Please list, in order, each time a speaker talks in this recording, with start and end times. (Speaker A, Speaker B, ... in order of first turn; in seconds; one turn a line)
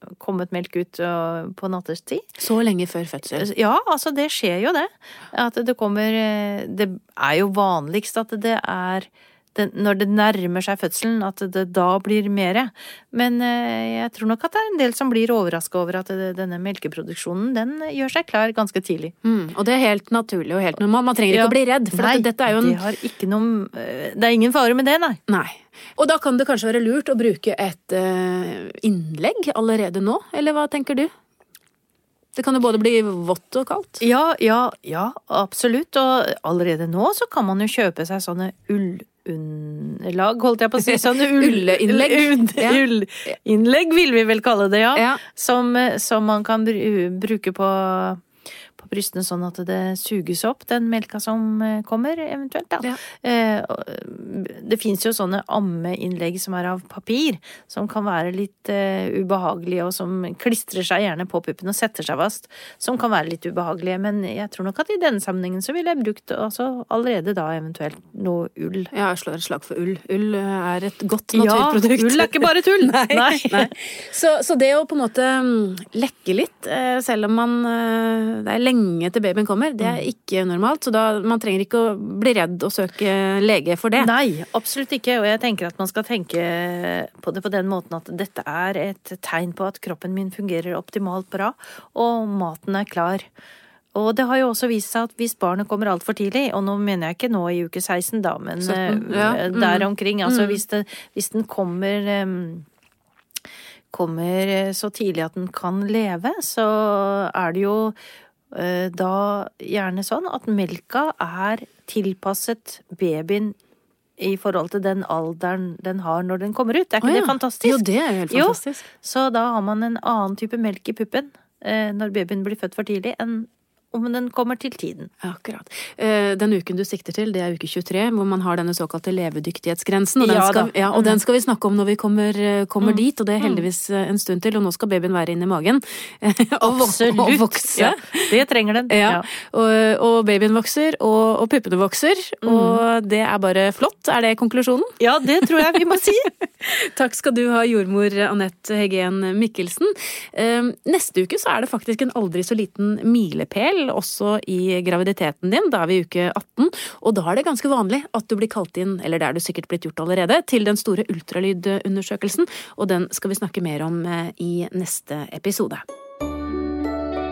Speaker A: 0.2-2.2
Speaker B: 2.4-3.5
Speaker A: 3.3-19.1
Speaker B: 19.2-22.8
Speaker A: 21.3-25.2
Speaker B: 25.3-31.1
Speaker B: 32.4-34.0
Speaker A: 34.0-48.2
Speaker B: 40.8-42.8
Speaker A: 48.8-68.9
Speaker B: 68.9-84.1
Speaker A: 71.3-73.7
Speaker A: 84.0-93.3
Speaker A: 94.0-102.7
Speaker B: 98.6-100.6
Speaker A: 103.9-108.0
Speaker A: 108.5-113.5
Speaker A: 114.2-125.1
Speaker B: 117.0-118.8
Speaker B: 125.2-144.9
Speaker A: 130.2-131.2
Speaker A: 132.8-133.7
Speaker A: 136.6-139.3
Speaker A: 142.4-142.8
Speaker A: 145.0-146.3
Speaker B: 146.6-165.8